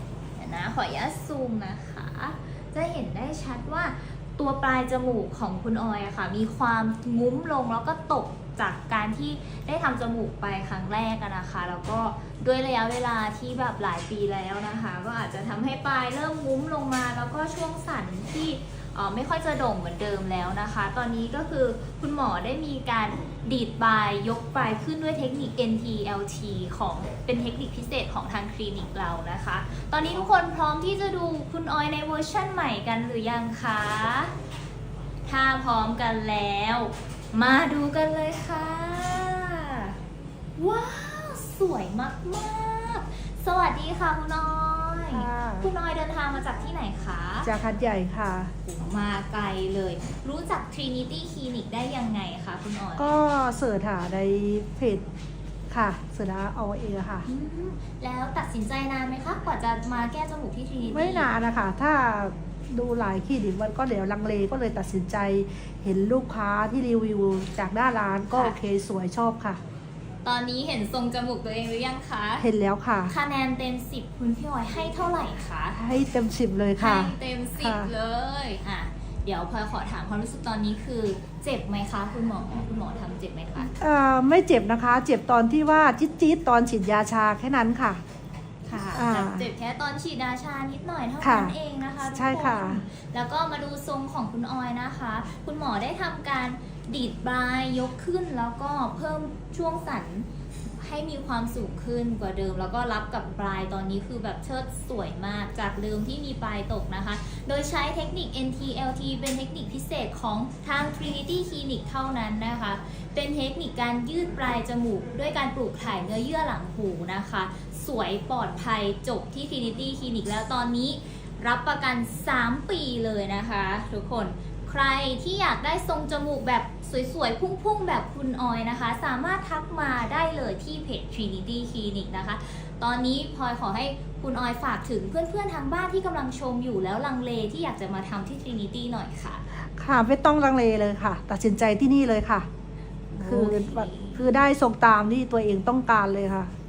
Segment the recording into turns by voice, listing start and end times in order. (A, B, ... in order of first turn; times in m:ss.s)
0:00.4-0:34.3 A
0:35.3-0:39.9 A
0:40.6-0:47.5 A
0:45.1-0:45.7 B
0:47.4-0:48.5 B
0:48.6-0:53.1 A
0:53.0-0:55.0 B
0:55.7-0:57.2 B
0:57.2-1:01.3 A
1:00.9-1:09.6 B
1:10.2-1:12.4 A
1:12.4-1:13.1 B
1:13.1-1:15.8 A
1:15.7-1:17.9 B
1:16.8-1:23.7 A
1:23.8-1:28.0 B
1:28.6-2:19.4 A
1:28.9-1:29.5 B
1:31.2-1:32.8 B
2:19.7-2:22.4 B
2:23.1-2:24.3 A
2:23.2-2:26.5 B